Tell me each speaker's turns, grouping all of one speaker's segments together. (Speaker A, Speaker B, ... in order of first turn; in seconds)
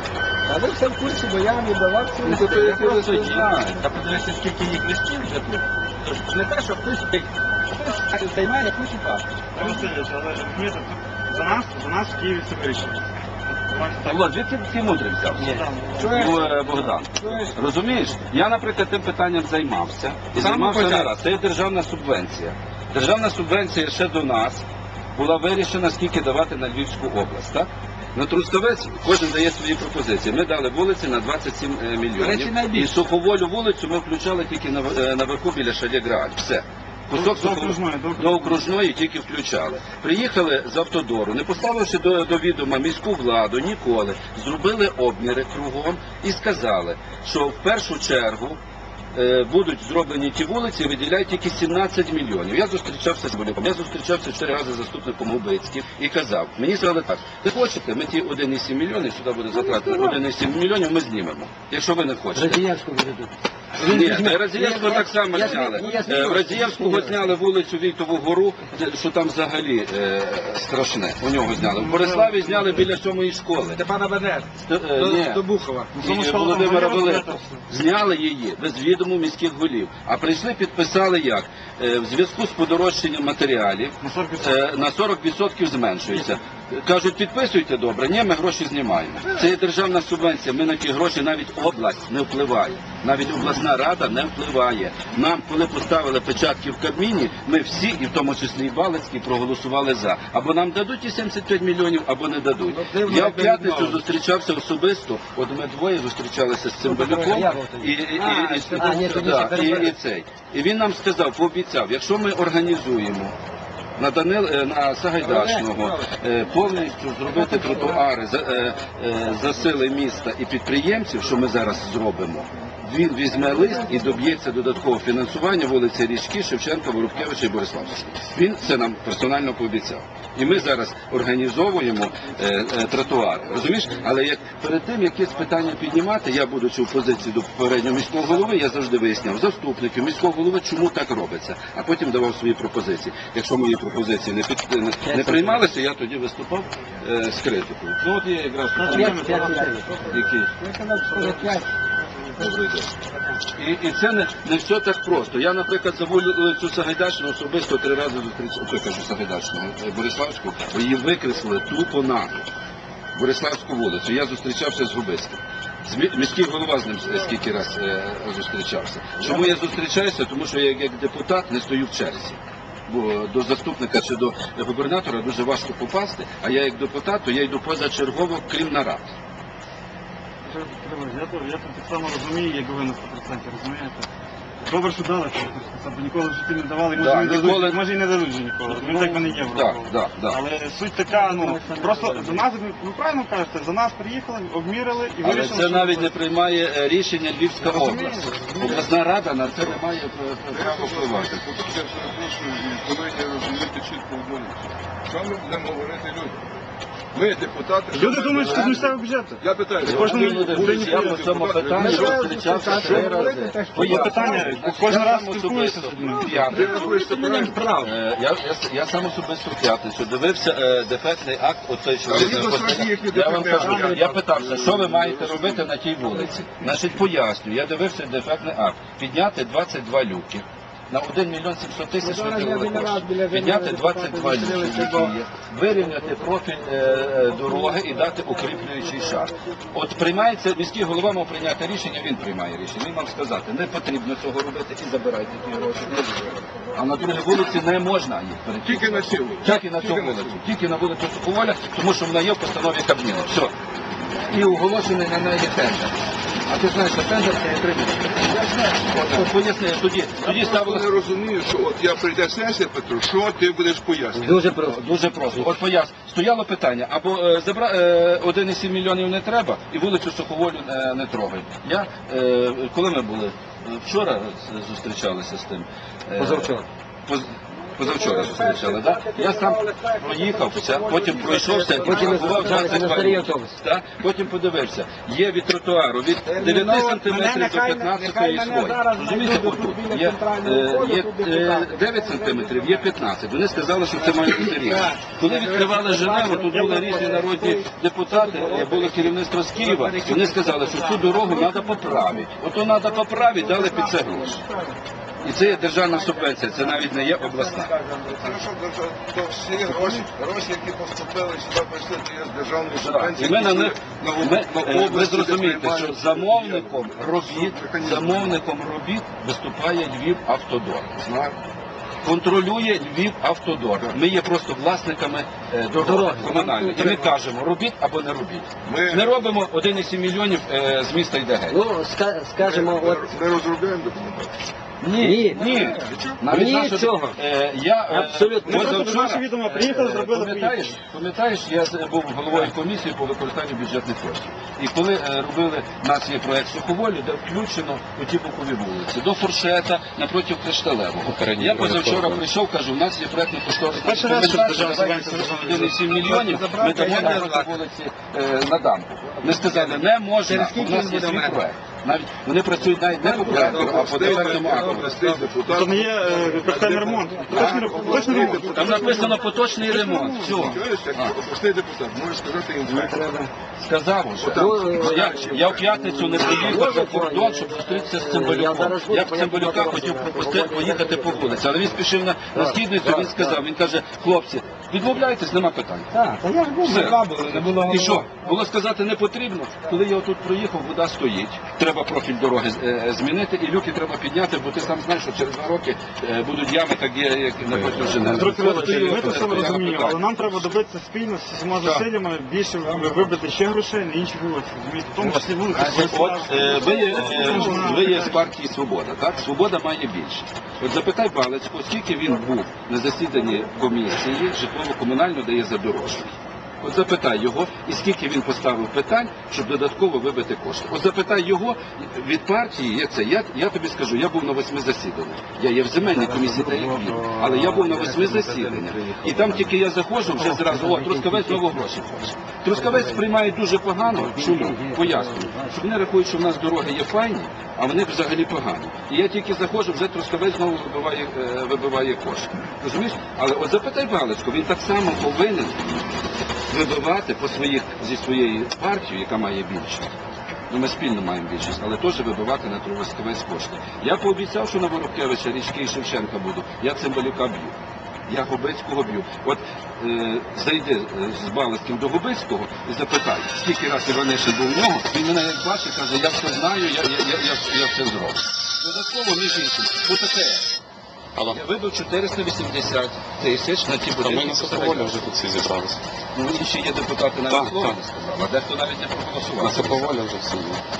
Speaker A: 0.5-9.8, 15.4-17.6, 20.3-21.1, 32.1-32.9, 73.8-75.9, 102.7-104.0, 107.0-107.6, 108.2-109.7, 148.9-151.7, 191.2-192.4, 211.8-214.6, 216.0-217.9, 223.6-224.0, 232.0-235.1, 277.7-283.1, 286.2-292.9, 293.9-302.2, 302.8-304.7, 305.3-308.4, 309.7-310.0, 355.9-357.6, 359.2-361.4, 363.1-365.1, 366.8-368.4, 385.9-388.1, 402.7-403.1, 405.6-405.8
Speaker B: 2.2-3.8, 14.1-48.6, 49.1-62.7, 63.8-73.8, 74.6-75.4, 76.0-113.3, 114.0-150.5, 151.2-151.6, 152.4-152.9, 153.6-162.4, 163.2-179.1, 186.9-187.8, 188.7-190.4, 195.2-201.4, 208.4-208.8, 209.8-216.9, 217.8-253.5, 254.3-255.9, 256.5-258.3, 258.8-260.9, 264.6-276.5, 277.1-304.4, 305.2-307.7, 312.8-321.1, 322.0-331.6, 334.8-365.2, 367.3-367.6, 368.2-371.1, 373.6-385.9, 386.6-400.5, 405.7-445.8, 446.5-449.9, 450.5-457.6, 458.1-470.5, 471.3-475.1, 476.1-479.9
Speaker C: 9.6-14.3, 15.4-16.7, 37.1-38.6, 71.7-72.9, 75.9-77.6, 84.0-84.6, 148.7-150.2, 180.4-184.1, 184.7-196.2, 197.6-198.8, 207.9-211.2, 213.7-216.4, 296.8-297.2, 338.4-340.7, 353.7-355.8, 365.5-370.5, 375.0-376.2, 398.0-408.2, 426.3-426.7, 427.3-427.6
Speaker D: 62.3-67.1, 108.9-109.7, 145.1-145.6, 149.1-149.9, 264.2-265.4, 276.2-276.7, 281.8-283.6, 325.8-327.1, 331.5-333.0, 335.0-335.4, 336.4-337.2, 337.9-338.6, 372.7-373.3, 374.4-381.8, 382.3-382.6, 427.8-428.6, 430.2-431.4, 432.5-433.0, 434.0-435.5
Speaker E: 169.2-169.5, 200.5-206.4, 207.1-213.2, 216.4-217.6, 222.1-225.7, 248.7-250.4, 258.7-259.2, 260.2-264.4, 308.2-318.4, 321.0-321.4, 328.7-329.2, 332.4-334.3, 335.7-336.4, 363.0-369.2, 370.0-373.2, 374.2-376.6
Speaker F: 351.1-352.2, 397.7-399.2, 474.0-475.8, 477.3-477.8, 479.4-480.6